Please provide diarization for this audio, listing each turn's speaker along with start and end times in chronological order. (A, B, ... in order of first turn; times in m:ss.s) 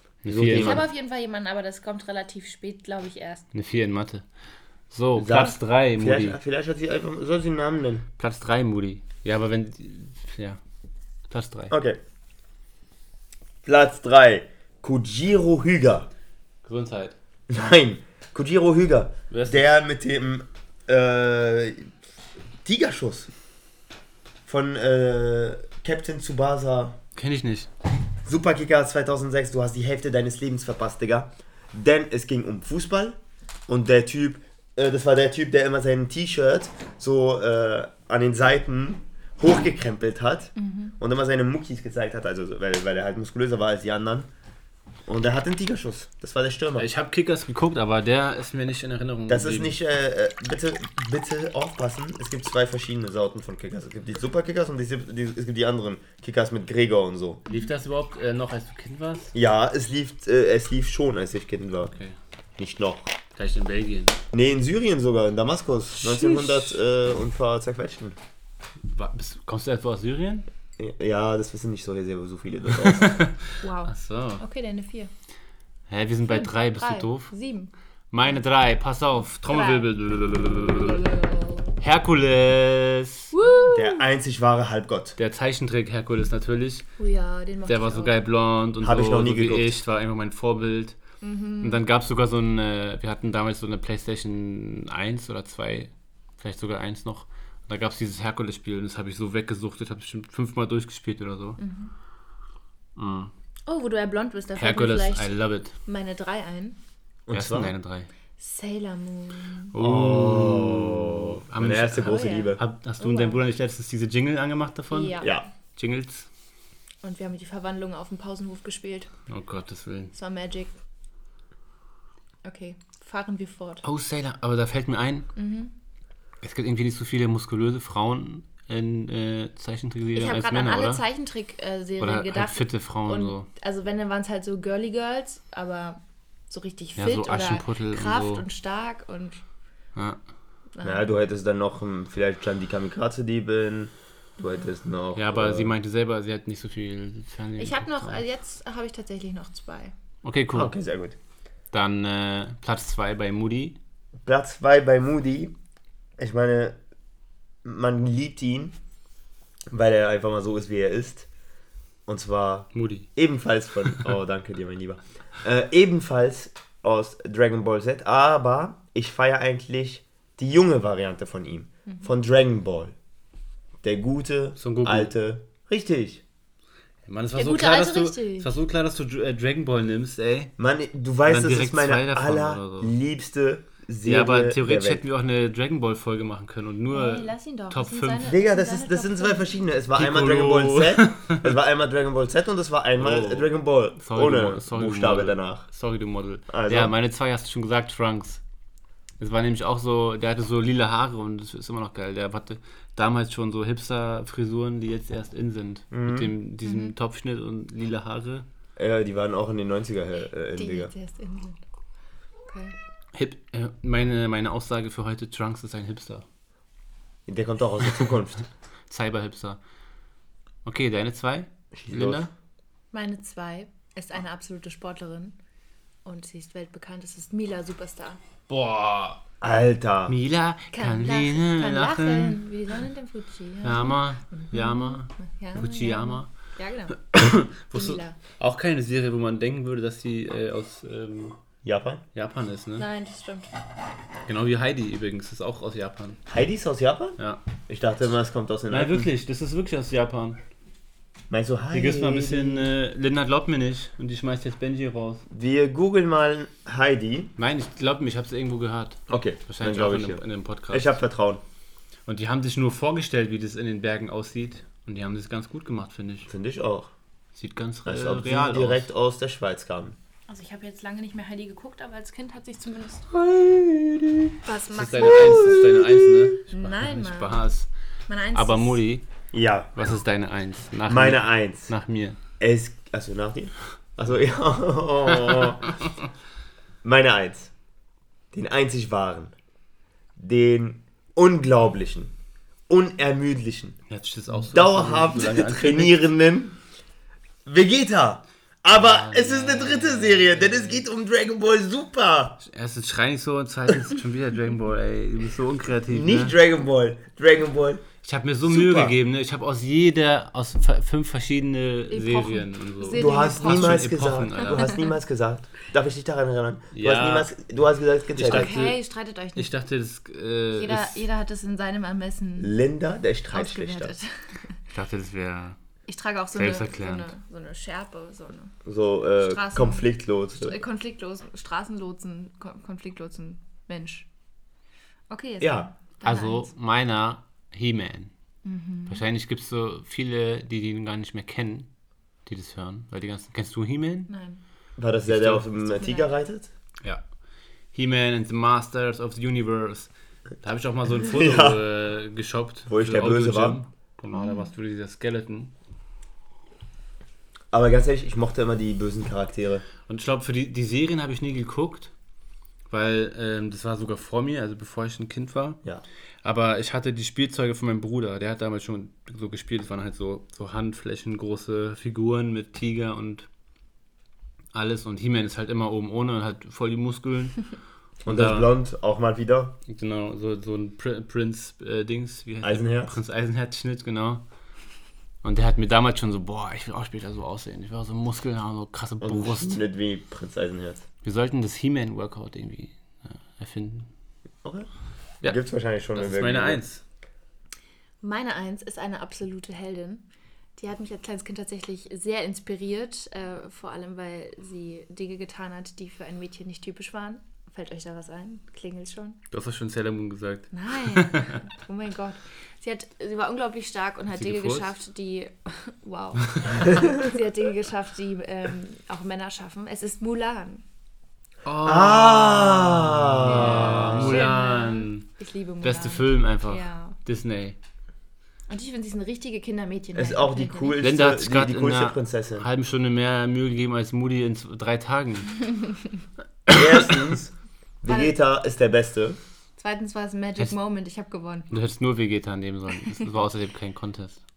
0:00.2-0:00.8 A
0:00.3-0:00.9 B
0:00.5-0:03.5 C
0:03.5-0:04.2 A
0:04.9-0:06.4 A
0:05.2-0:08.0 B
0:08.2-0:10.6 A
0:11.3-0:11.7 A
0:11.7-0:12.0 B
0:13.6-0:16.1 B
0:16.6-0:17.2 A
0:17.5-0:21.9 B
0:19.3-0:19.7 A
0:22.6-0:23.3 B
0:24.4-0:27.0 B
0:27.2-0:27.7 A
0:28.2-0:44.3 B
0:40.6-0:40.9 C
0:45.1-0:46.9 B
0:46.8-0:49.8 A
0:49.3-0:57.4 B
0:57.5-0:59.3 A
0:59.3-1:01.9 B
1:02.6-1:03.1 B
1:03.3-1:04.2 A
1:04.3-1:08.2 B
1:08.9-1:10.5 A
1:10.8-1:13.2 B
1:12.7-1:14.4 A
1:13.6-1:15.1 C
1:15.9-1:17.3 A
1:16.2-1:17.7 C
1:18.1-1:21.0 A
1:19.5-1:19.9 C
1:20.5-1:21.8 C
1:21.8-1:23.3 A
1:23.3-1:24.1 C
1:23.7-1:25.2 B
1:25.2-1:26.9 A
1:27.0-1:28.2 C
1:27.7-1:31.0 A
1:28.8-1:29.8 B
1:31.2-1:31.8 C
1:31.6-1:41.6 A
1:41.6-1:41.9 C
1:43.0-1:43.3 A
1:43.6-1:46.8 C
1:44.6-1:45.7 A
1:47.3-1:47.7 B
1:47.3-1:48.1 A
1:48.4-1:49.7 C
1:49.7-1:56.3 A
1:49.8-1:52.6 B
1:52.0-1:53.4 C
1:54.9-1:55.4 C
1:57.0-1:59.1 C
1:59.3-2:00.1 A
2:00.1-2:00.7 C
2:02.4-2:03.8 C
2:03.8-2:05.3 A
2:05.3-2:05.7 C
2:06.4-2:11.0 A
2:10.1-2:19.4 C
2:12.0-2:13.5 A
2:17.0-2:18.4 A
2:20.7-2:21.0 C
2:20.8-2:25.7 B
2:25.1-2:28.2 A
2:27.6-2:29.9 C
2:30.2-2:30.7 A
2:30.5-2:31.2 B
2:31.7-2:33.8 A
2:34.2-2:35.5 B
2:36.2-2:36.8 B
2:37.6-2:38.7 B
2:39.7-2:41.3 B
2:42.1-2:52.9 B
2:42.7-2:43.1 A
2:53.8-2:56.2 B
2:54.6-2:55.1 A
2:57.0-3:00.5 A
2:57.3-2:58.5 C
3:00.6-3:05.0 B
3:01.3-3:03.0 A
3:04.0-3:08.3 A
3:06.9-3:09.6 C
3:08.2-3:15.6 B
3:10.0-3:11.4 A
3:13.0-3:18.4 A
3:16.5-3:16.9 B
3:19.2-3:28.4 A
3:25.9-3:26.3 B
3:26.6-3:26.9 C
3:28.8-3:30.9 B
3:30.5-3:31.6 C
3:32.4-3:32.8 C
3:33.1-3:36.2 A
3:37.3-3:38.4 B
3:38.9-3:39.6 A
3:40.6-3:42.3 A
3:41.7-3:42.2 B
3:42.9-3:45.4 C
3:46.0-3:48.2 C
3:48.5-3:49.2 A
3:49.4-3:50.1 B
3:50.1-3:52.4 A
3:50.7-3:57.1 C
3:53.6-3:56.3 A
3:57.1-4:01.4 A
3:57.7-3:58.2 C
4:01.6-4:02.0 B
4:02.1-4:02.8 A
4:02.8-4:03.5 C
4:04.2-4:06.2 A
4:06.3-4:09.1 B
4:08.7-4:10.4 A
4:11.3-4:12.7 B
4:11.7-4:15.2 A
4:15.3-4:17.3 B
4:17.4-4:21.0 A
4:19.1-4:21.4 B
4:22.1-4:26.3 A
4:26.3-4:26.9 B
4:27.3-4:28.9 A
4:27.8-4:30.0 B
4:30.3-4:33.1 C
4:33.1-4:34.4 B
4:34.4-4:35.8 C
4:34.7-4:37.7 A
4:35.0-4:36.3 B
4:36.5-4:37.4 C
4:38.1-4:38.8 C
4:38.3-4:39.1 A
4:39.3-4:39.7 B
4:39.7-4:42.2 A
4:40.9-4:41.7 B
4:42.4-4:45.8 B
4:46.8-4:47.5 B
4:48.3-4:49.3 B
4:50.2-4:52.1 B
4:52.7-4:53.8 B
4:53.9-4:56.0 A
4:54.4-4:56.6 B
4:57.4-5:02.4 B
4:58.7-5:00.8 A
5:02.4-5:06.4 A
5:05.9-5:07.8 B
5:08.0-5:14.7 A
5:08.4-5:08.9 B
5:11.9-5:14.9 C
5:12.9-5:18.6 B
5:16.7-5:17.3 A
5:18.1-5:18.8 A
5:18.2-5:19.5 C
5:19.4-5:21.0 A
5:20.5-5:22.5 C
5:22.4-5:23.9 B
5:23.3-5:24.6 C
5:24.7-5:25.6 A
5:25.9-5:28.5 C
5:26.3-5:27.1 A
5:28.6-5:30.6 B
5:29.2-5:34.1 C
5:35.1-5:36.5 C
5:35.4-5:35.7 B
5:36.0-5:38.1 A
5:38.4-5:39.0 C
5:38.9-5:41.7 A
5:42.2-5:44.1 A
5:44.1-5:44.4 C
5:44.8-5:46.5 B
5:45.0-5:45.4 A
5:45.6-5:46.1 C
5:47.7-5:55.5 A
5:51.1-5:51.6 B
5:52.7-5:53.6 B
5:54.1-5:54.5 C
5:57.5-5:59.6 B
5:59.9-6:01.9 A
6:02.7-6:05.6 A
6:06.2-6:13.3 A
6:14.5-6:17.4 A
6:18.0-6:19.6 B
6:18.0-6:18.5 A
6:19.7-6:24.2 A
6:22.4-6:22.9 B
6:25.2-6:29.6 A
6:29.0-6:30.8 B
6:31.0-6:33.9 A
6:35.2-6:36.6 B
6:35.9-6:36.8 A
6:38.0-6:40.0 C
6:40.6-6:49.2 C
6:49.3-6:51.4 A
6:50.5-7:00.6 C
6:54.1-6:54.7 A
6:56.3-6:56.7 A
7:01.4-7:05.1 A
7:01.6-7:04.3 B
7:03.2-7:07.0 C
7:05.6-7:07.6 A
7:08.5-7:10.8 C
7:09.9-7:12.4 B
7:10.8-7:15.4 A
7:16.5-7:16.9 A
7:16.5-7:19.2 B
7:17.9-7:18.2 C
7:19.6-7:21.5 C
7:21.5-7:24.2 A